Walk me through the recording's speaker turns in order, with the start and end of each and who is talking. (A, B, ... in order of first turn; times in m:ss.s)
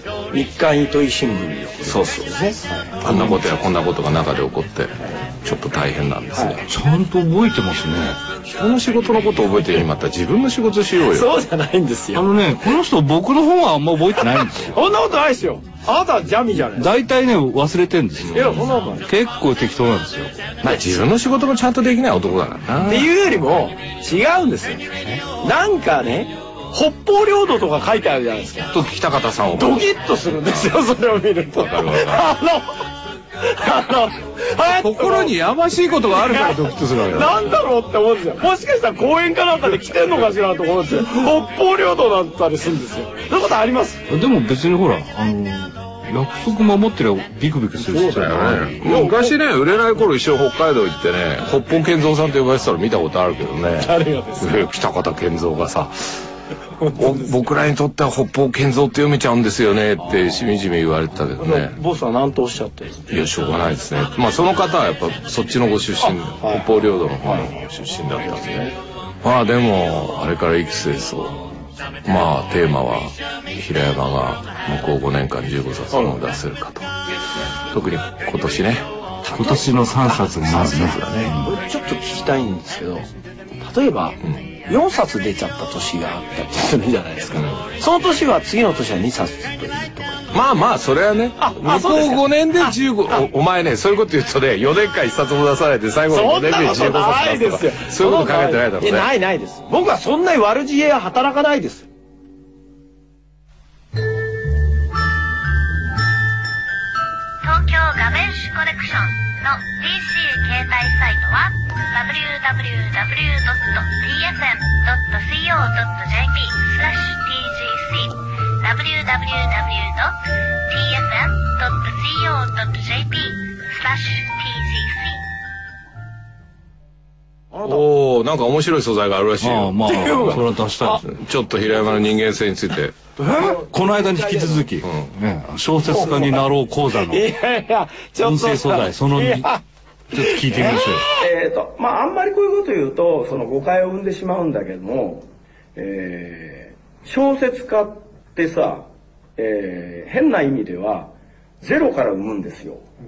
0:00.3-0:03.0 A
0:01.9-0:02.3 B
0:03.0-0:06.6 B
0:05.0-0:05.2 A
0:06.3-0:06.6 A
0:06.7-0:08.2 C
0:08.4-0:11.3 B
0:11.1-0:12.3 A
0:12.1-0:14.8 C
0:14.3-0:16.9 A
0:16.7-0:20.4 C
0:18.3-0:18.6 B
0:18.3-0:19.1 A
0:20.6-0:23.1 B
0:22.8-0:28.7 A
0:28.7-0:29.9 B
0:29.5-0:32.8 A
0:31.6-0:32.3 B
0:33.4-0:35.3 A
0:34.7-0:37.3 B
0:36.1-0:44.0 A
0:44.1-0:48.8 C
0:48.0-0:56.0 B
0:48.7-0:49.4 A
0:53.7-0:54.6 A
0:56.8-0:57.4 A
0:56.9-1:01.8 B
1:01.4-1:03.1 A
1:03.1-1:08.7 B
1:06.0-1:08.7 A
1:09.2-1:11.4 B
1:12.0-1:16.9 B
1:15.9-1:16.2 A
1:17.7-1:18.8 B
1:19.2-1:20.3 A
1:19.3-1:21.5 C
1:20.5-1:21.3 B
1:21.2-1:23.1 A
1:23.6-1:30.2 A
1:30.3-1:39.1 B
1:31.4-1:33.2 A
1:36.1-1:41.9 A
1:47.4-2:00.1 D
2:00.6-2:05.2 D
2:07.5-2:07.9 A
2:07.6-2:10.4 B
2:09.4-2:11.0 C
2:09.8-2:11.0 A
2:11.0-2:13.0 B
2:13.2-2:14.6 A
2:13.2-2:17.3 C
2:14.8-2:15.1 B
2:15.8-2:19.6 A
2:18.2-2:19.5 C
2:20.1-2:21.1 C
2:20.2-2:21.1 A
2:21.2-2:25.2 E
2:25.8-2:28.8 E
2:29.4-2:32.8 E